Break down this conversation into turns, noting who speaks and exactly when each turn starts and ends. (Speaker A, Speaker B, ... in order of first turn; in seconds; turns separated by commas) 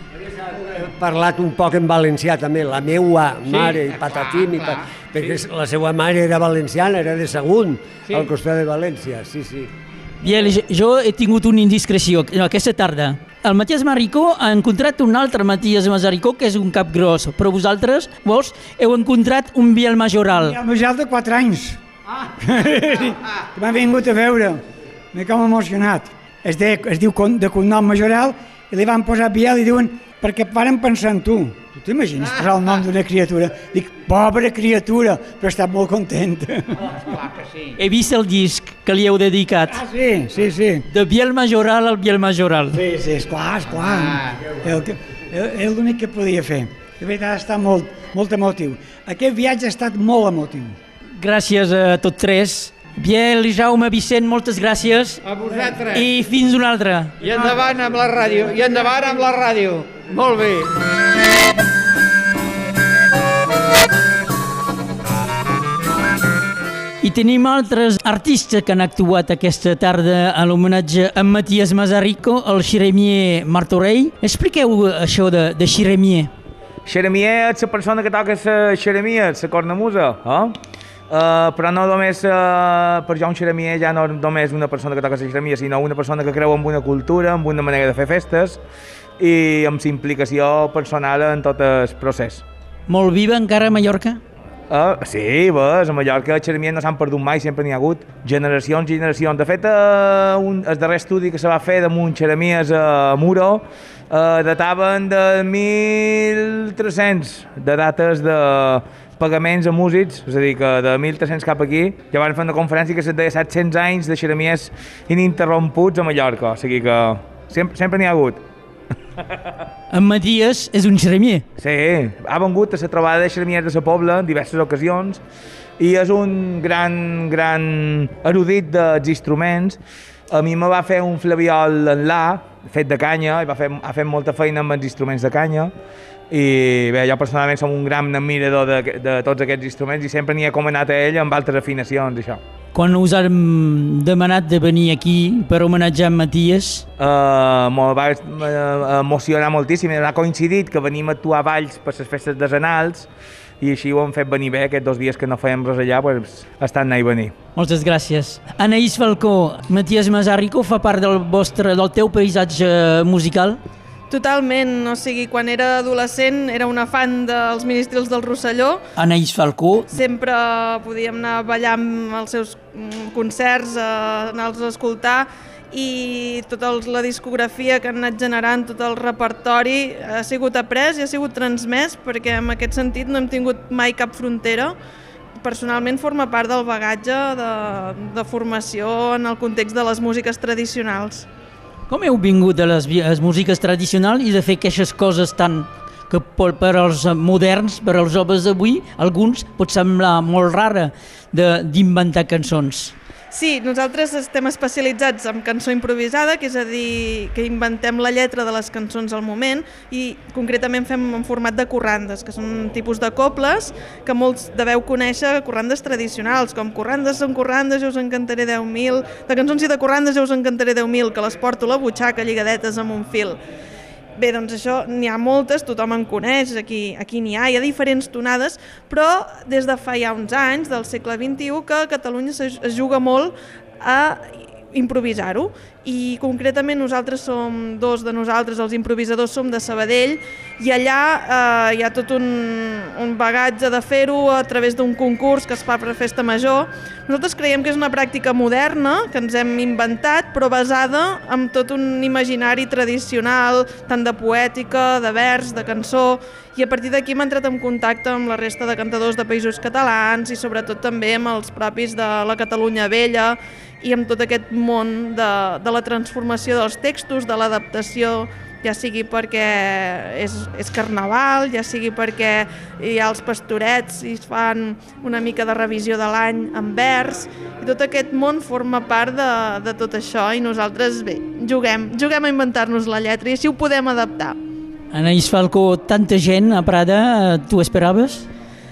Speaker A: 0.5-9.7, Speaker B: 3.5-5.3, Speaker C: 10.2-20.6, Speaker D: 20.3-24.6, Speaker D: 25.1-36.9, Speaker C: 37.8-39.8, Speaker D: 39.7-40.8, Speaker C: 40.9-42.8, Speaker D: 42.7-50.8, Speaker C: 51.2-55.2, Speaker B: 55.2-56.1, Speaker C: 55.9-57.1, Speaker B: 57.2-60.7, Speaker C: 67.0-76.3, Speaker E: 76.8-80.5, Speaker E: 81.1-88.6, Speaker E: 89.2-92.4, Speaker C: 92.9-94.2, Speaker E: 94.7-118.4, Speaker C: 119.9-121.5, Speaker E: 121.6-125.2, Speaker E: 125.8-129.8, Speaker E: 130.3-135.7, Speaker E: 136.3-142.4, Speaker C: 142.7-146.8, Speaker E: 147.0-153.1, Speaker E: 153.6-157.3, Speaker C: 157.6-163.6, Speaker F: 164.1-168.8, Speaker C: 168.9-169.9, Speaker F: 169.9-184.7, Speaker F: 185.4-191.3, Speaker C: 191.9-202.9, Speaker F: 203.3-223.4, Speaker F: 224.2-284.4, Speaker C: 284.9-288.3